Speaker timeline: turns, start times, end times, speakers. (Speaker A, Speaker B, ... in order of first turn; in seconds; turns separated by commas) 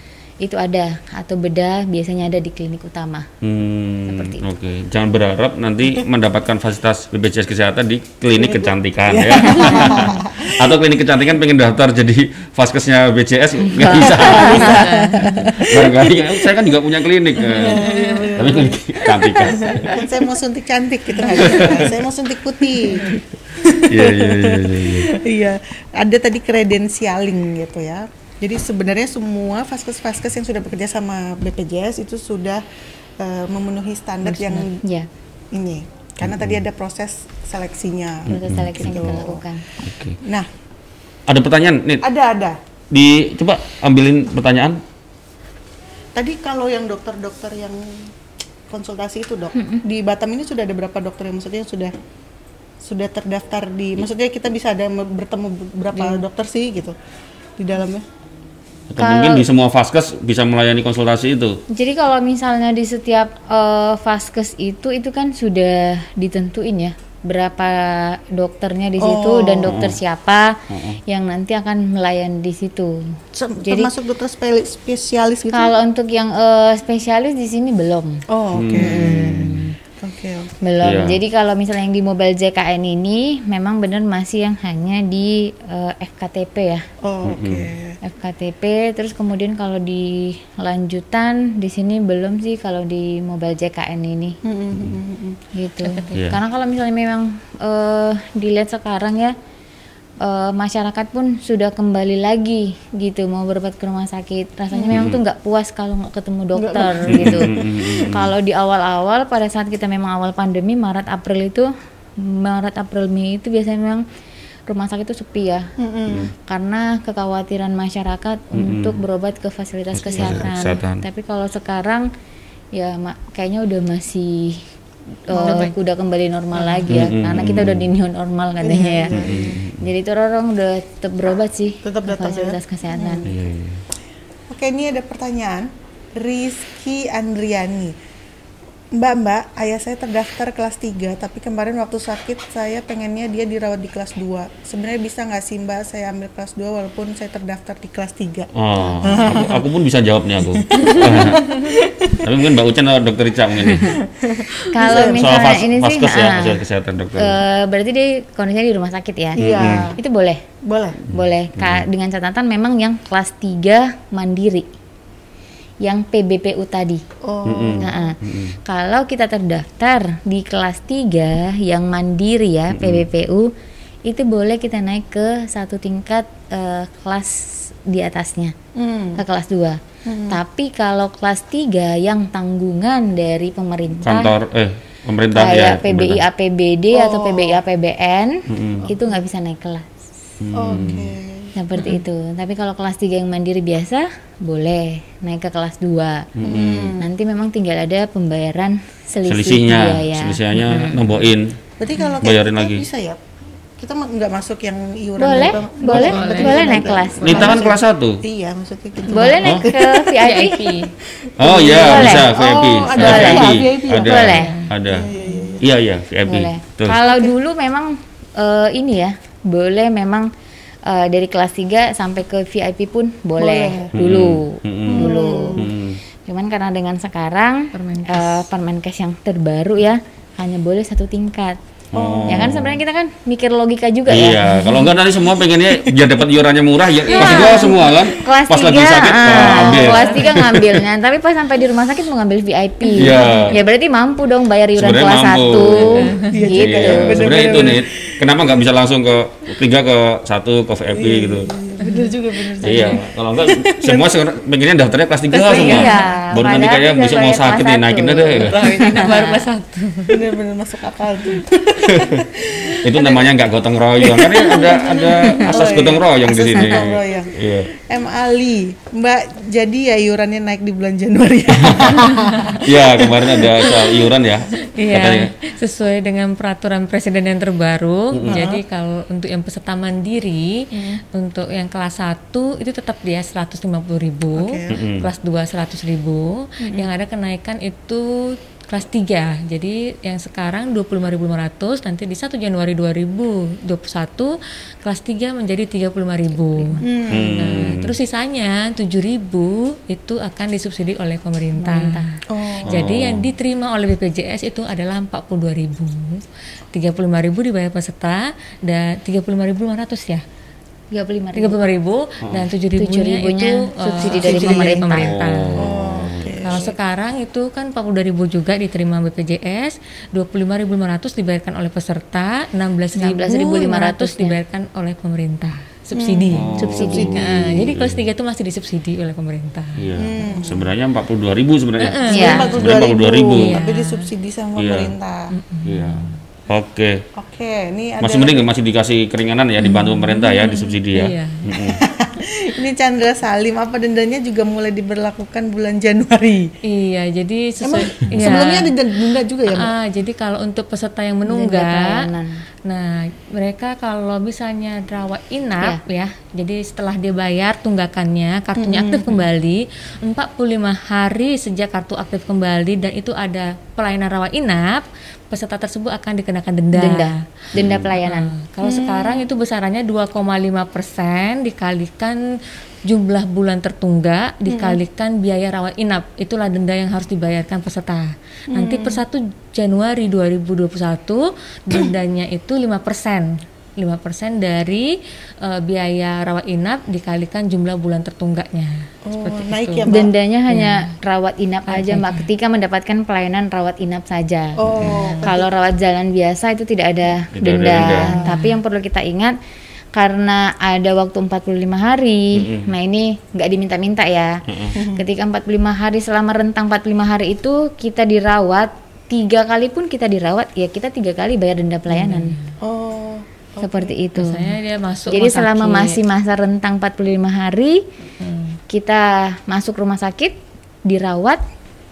Speaker A: 0.4-3.3, Speaker B: 3.4-14.8, Speaker A: 4.1-4.5, Speaker C: 8.4-10.8, Speaker A: 13.6-14.8, Speaker C: 14.0-16.1, Speaker D: 14.5-15.5, Speaker B: 15.6-20.1, Speaker C: 17.4-32.6, Speaker D: 17.8-18.5, Speaker B: 21.3-21.9, Speaker B: 23.8-25.1, Speaker C: 33.2-34.8, Speaker D: 34.2-34.7, Speaker A: 34.8-35.1, Speaker C: 35.5-39.4, Speaker B: 36.2-36.6, Speaker B: 38.3-39.2, Speaker A: 38.3-39.6, Speaker B: 39.8-40.2, Speaker C: 40.2-40.5, Speaker B: 41.3-42.0, Speaker C: 42.0-42.6, Speaker B: 42.9-44.8, Speaker C: 46.1-48.1, Speaker C: 48.7-51.9, Speaker A: 49.6-49.8, Speaker C: 52.8-57.0, Speaker C: 57.6-58.0, Speaker B: 58.9-61.6, Speaker A: 59.0-59.5, Speaker A: 61.7-73.9, Speaker C: 69.0-69.8, Speaker B: 69.6-70.0, Speaker B: 70.7-71.0, Speaker C: 73.3-75.7, Speaker A: 75.5-79.7, Speaker C: 78.3-80.5, Speaker B: 78.5-79.7, Speaker A: 80.6-86.8, Speaker B: 80.8-81.2, Speaker C: 87.0-88.0, Speaker B: 87.2-87.7, Speaker A: 88.0-94.4, Speaker C: 94.4-95.4, Speaker A: 95.5-99.3, Speaker D: 95.8-96.2, Speaker B: 96.1-96.4, Speaker A: 100.2-114.0, Speaker C: 104.7-105.1, Speaker B: 104.9-105.2, Speaker C: 106.6-108.2, Speaker B: 107.1-108.3, Speaker A: 114.7-115.7, Speaker C: 115.8-116.3, Speaker A: 116.4-122.1, Speaker B: 118.5-119.0, Speaker B: 119.9-121.0, Speaker A: 122.7-124.7, Speaker A: 125.3-129.2, Speaker C: 125.3-125.7, Speaker D: 125.4-125.7, Speaker B: 126.9-127.9, Speaker C: 128.6-129.6, Speaker B: 129.1-129.9, Speaker A: 129.8-133.3, Speaker C: 131.8-133.3, Speaker B: 133.2-133.8, Speaker C: 134.5-137.9, Speaker C: 138.9-148.5, Speaker B: 148.5-151.5, Speaker C: 149.0-149.6, Speaker C: 150.6-152.3, Speaker B: 152.2-154.0, Speaker C: 153.9-155.3, Speaker A: 154.7-156.6, Speaker B: 154.8-157.4, Speaker A: 157.2-160.4, Speaker C: 159.4-159.9, Speaker B: 159.4-159.9, Speaker C: 160.6-161.0, Speaker A: 161.1-164.7, Speaker B: 161.1-161.9, Speaker A: 165.8-167.0, Speaker C: 167.2-168.1, Speaker B: 167.5-168.6, Speaker A: 167.8-173.5, Speaker B: 172.7-173.1, Speaker A: 174.1-178.6, Speaker C: 178.8-179.2, Speaker A: 179.2-184.3, Speaker C: 180.1-180.4, Speaker B: 184.0-186.2, Speaker A: 185.3-190.1, Speaker C: 186.9-187.6, Speaker B: 188.5-188.9, Speaker B: 190.4-191.1, Speaker C: 190.6-191.5, Speaker A: 191.6-196.3, Speaker B: 196.3-197.0, Speaker C: 196.4-197.1, Speaker A: 197.0-201.1, Speaker B: 199.2-201.6, Speaker C: 201.8-203.2, Speaker B: 202.2-202.9, Speaker C: 203.8-210.2, Speaker A: 205.2-207.8, Speaker D: 205.8-207.0, Speaker B: 207.2-208.2, Speaker A: 209.1-210.8, Speaker B: 209.4-209.7, Speaker D: 210.2-210.9, Speaker C: 211.2-214.3, Speaker B: 211.4-217.0, Speaker A: 211.5-212.3, Speaker A: 212.9-214.6, Speaker D: 214.2-215.5, Speaker C: 214.8-215.7, Speaker A: 216.2-220.3, Speaker C: 217.0-217.3, Speaker A: 220.8-225.7, Speaker C: 223.4-223.9, Speaker B: 223.9-226.0, Speaker C: 224.9-225.7, Speaker A: 226.3-231.6, Speaker D: 227.7-228.4, Speaker B: 231.9-232.8, Speaker C: 231.9-232.7, Speaker A: 232.3-234.7, Speaker B: 234.1-240.8, Speaker D: 234.5-234.8, Speaker C: 235.4-235.9, Speaker D: 237.1-237.8, Speaker A: 237.1-247.5, Speaker C: 237.3-238.2, Speaker C: 239.3-239.7, Speaker D: 239.6-240.3, Speaker B: 242.9-243.6, Speaker B: 244.7-251.5, Speaker D: 245.6-246.3, Speaker C: 246.2-248.5, Speaker C: 250.9-254.1, Speaker D: 251.8-252.2, Speaker B: 252.6-258.6, Speaker C: 255.3-256.2, Speaker D: 255.5-255.9, Speaker A: 255.6-259.4, Speaker D: 258.4-260.3, Speaker C: 258.7-259.1, Speaker C: 260.1-263.4, Speaker B: 261.9-262.3, Speaker B: 262.8-267.7, Speaker C: 264.0-273.7, Speaker B: 271.6-272.0, Speaker D: 272.0-272.6, Speaker B: 272.6-275.3, Speaker D: 274.6-310.2, Speaker B: 278.1-278.5, Speaker C: 278.2-278.6, Speaker C: 284.3-284.8, Speaker B: 284.7-285.1, Speaker A: 296.5-296.8, Speaker C: 296.8-297.3, Speaker B: 297.1-297.9, Speaker A: 301.6-302.1, Speaker C: 302.3-302.9, Speaker B: 302.7-303.3, Speaker A: 310.9-311.6, Speaker D: 311.3-315.7, Speaker B: 312.2-312.5, Speaker A: 312.8-315.1, Speaker C: 314.1-314.7, Speaker B: 314.3-316.7, Speaker C: 315.6-316.7, Speaker D: 316.4-330.3, Speaker A: 322.9-324.4, Speaker C: 325.9-327.4, Speaker B: 326.3-328.1, Speaker A: 326.6-327.1, Speaker B: 329.8-333.6, Speaker C: 329.9-330.7, Speaker D: 331.8-334.1, Speaker C: 332.1-335.3, Speaker A: 332.1-332.5, Speaker B: 334.6-334.9, Speaker D: 335.3-336.2, Speaker B: 335.6-337.0, Speaker C: 337.2-338.4, Speaker B: 338.0-341.8, Speaker D: 339.6-341.5, Speaker C: 341.6-346.5, Speaker D: 346.6-348.8, Speaker C: 347.6-349.7, Speaker D: 349.5-352.0, Speaker A: 351.3-352.4, Speaker D: 352.6-367.2, Speaker C: 358.6-359.3, Speaker A: 366.7-368.3, Speaker B: 367.6-367.9, Speaker D: 368.0-372.2, Speaker C: 368.6-369.3, Speaker D: 372.9-389.9, Speaker C: 374.5-374.8, Speaker C: 378.5-379.0, Speaker C: 389.1-390.1, Speaker A: 389.9-394.6, Speaker D: 390.5-390.9, Speaker D: 391.7-392.3, Speaker C: 394.6-395.5, Speaker B: 394.7-395.0, Speaker D: 394.8-395.3, Speaker A: 395.2-399.4, Speaker B: 397.3-398.1, Speaker D: 397.9-398.6, Speaker A: 399.9-412.4, Speaker B: 402.3-402.7, Speaker B: 404.5-404.8, Speaker C: 404.7-405.0, Speaker D: 411.9-412.5, Speaker C: 412.6-413.9, Speaker A: 413.6-414.6, Speaker D: 414.1-416.0, Speaker A: 415.1-417.8, Speaker D: 418.2-418.6, Speaker A: 418.7-421.4